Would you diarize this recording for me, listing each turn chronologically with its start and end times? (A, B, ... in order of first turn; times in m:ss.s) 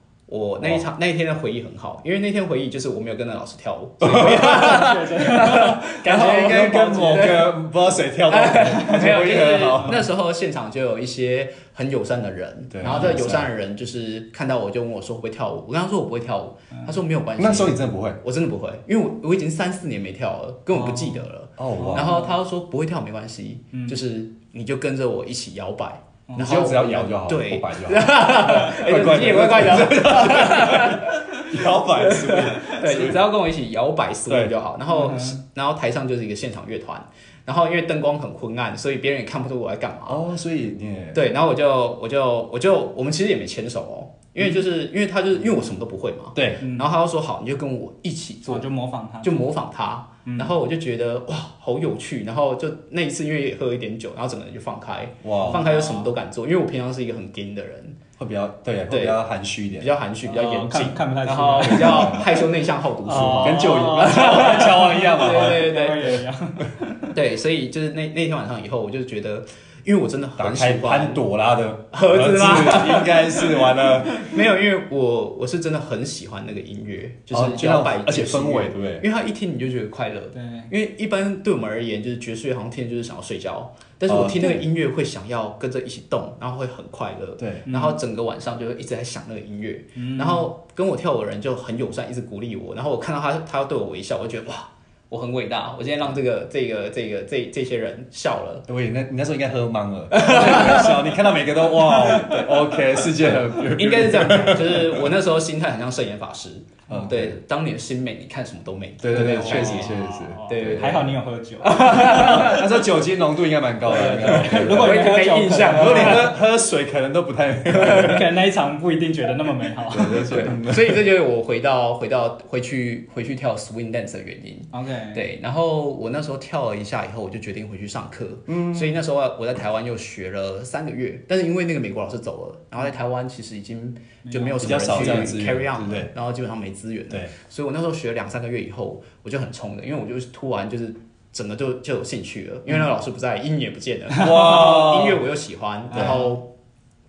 0:00.3-0:07.6 A
0:04.0-0:04.8 B
0:04.4-0:07.2 C
0:06.0-0:10.1 B
0:08.3-0:40.2 A
0:12.7-0:13.5 B
0:12.8-0:13.2 C
0:17.4-0:18.2 B
0:20.7-0:21.2 C
0:21.6-0:22.1 B
0:21.8-0:22.3 C
0:23.7-0:24.0 C
0:26.4-0:33.2 B
0:34.3-0:34.5 B
0:34.9-0:35.4 C
0:40.1-0:41.2 B
0:41.1-0:48.7 A
0:46.4-0:46.6 B
0:46.6-0:46.9 C
0:48.5-0:49.5 C
0:49.2-0:58.0 A
0:50.2-0:50.5 C
0:55.2-0:55.6 B
0:55.4-0:56.1 C
0:58.2-0:59.9 B
0:58.9-0:59.2 A
0:59.8-1:06.2 A
1:00.2-1:02.4 C
1:01.6-1:02.3 B
1:03.0-1:07.2 C
1:03.3-1:05.7 B
1:07.1-1:11.2 A
1:10.4-1:14.3 B
1:11.9-1:38.7 A
1:17.3-1:19.1 B
1:20.3-1:20.7 C
1:24.1-1:24.6 B
1:27.4-1:27.7 B
1:27.7-1:28.0 C
1:30.0-1:30.5 C
1:38.7-1:45.1 B
1:40.1-1:41.1 A
1:41.9-1:42.6 A
1:43.3-1:50.0 A
1:46.9-1:47.4 B
1:49.0-1:51.1 B
1:49.1-1:52.6 C
1:50.5-1:51.1 A
1:51.6-1:52.7 A
1:52.0-1:55.0 B
1:53.8-1:56.3 C
1:54.1-1:56.4 A
1:55.7-1:58.3 B
1:57.7-2:00.6 C
1:57.8-1:58.1 A
1:59.9-2:01.0 B
2:00.4-2:26.5 A
2:04.7-2:05.2 C
2:08.5-2:09.0 B
2:14.2-2:15.3 C
2:14.6-2:16.1 B
2:24.2-2:25.2 B
2:25.9-2:26.2 B
2:25.9-2:26.4 C